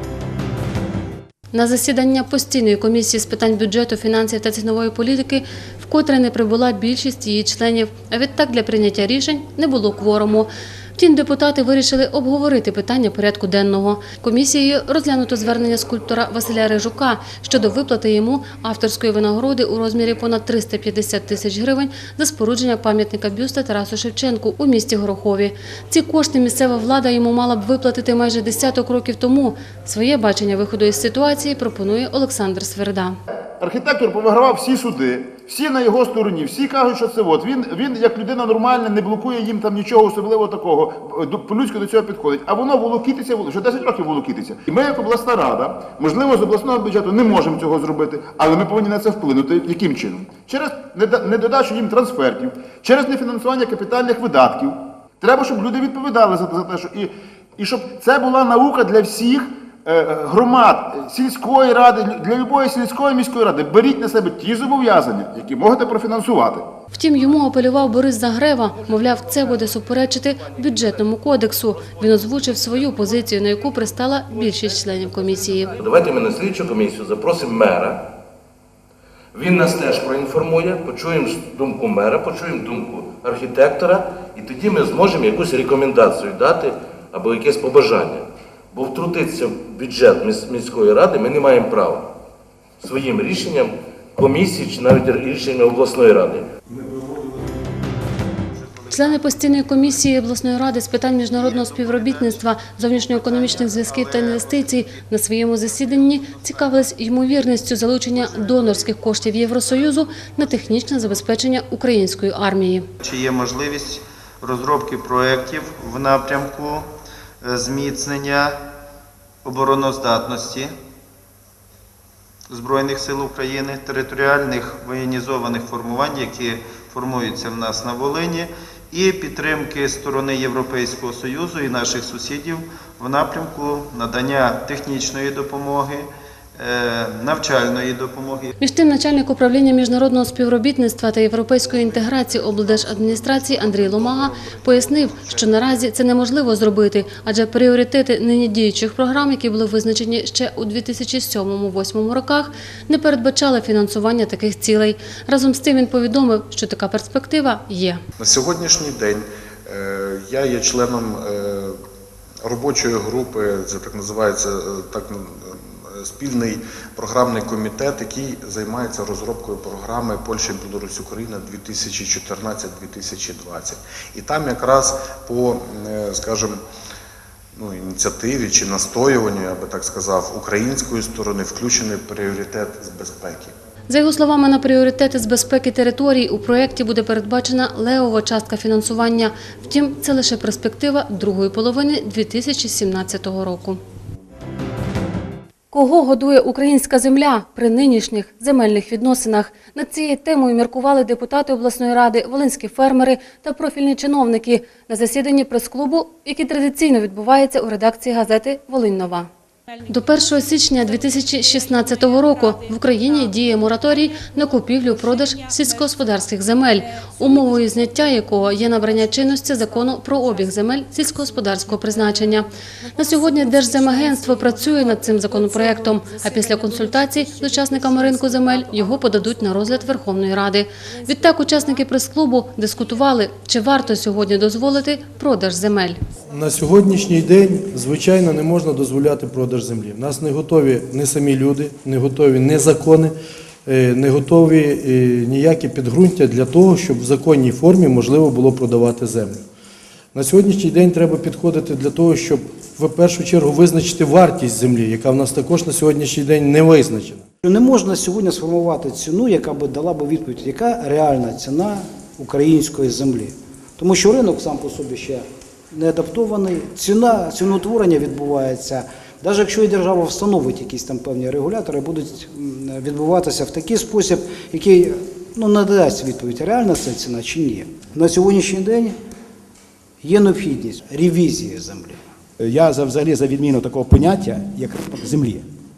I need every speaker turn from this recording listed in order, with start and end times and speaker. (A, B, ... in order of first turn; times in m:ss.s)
0:01.5-0:33.2 A
0:33.6-1:06.7 B
1:06.9-1:15.7 A
1:15.8-1:18.1 C
1:19.3-1:32.1 C
1:32.8-1:36.5 C
1:38.9-1:52.9 A
1:41.4-1:42.4 D
1:43.0-1:44.5 D
1:53.0-1:56.9 D
1:57.4-1:58.6 D
1:59.4-2:00.7 D
2:02.5-2:18.5 D
2:18.6-2:38.0 A
2:22.6-2:25.5 D
2:38.2-2:41.8 E
2:42.4-2:56.6 E
2:57.6-3:03.5 E
3:03.9-3:13.8 A
3:15.7-3:29.3 A
3:29.9-3:56.0 A
3:56.3-4:03.1 F
4:03.7-4:09.4 F
4:10.1-4:17.3 F
4:17.4-4:39.0 G
4:40.0-4:42.1 G
4:42.4-4:45.4 H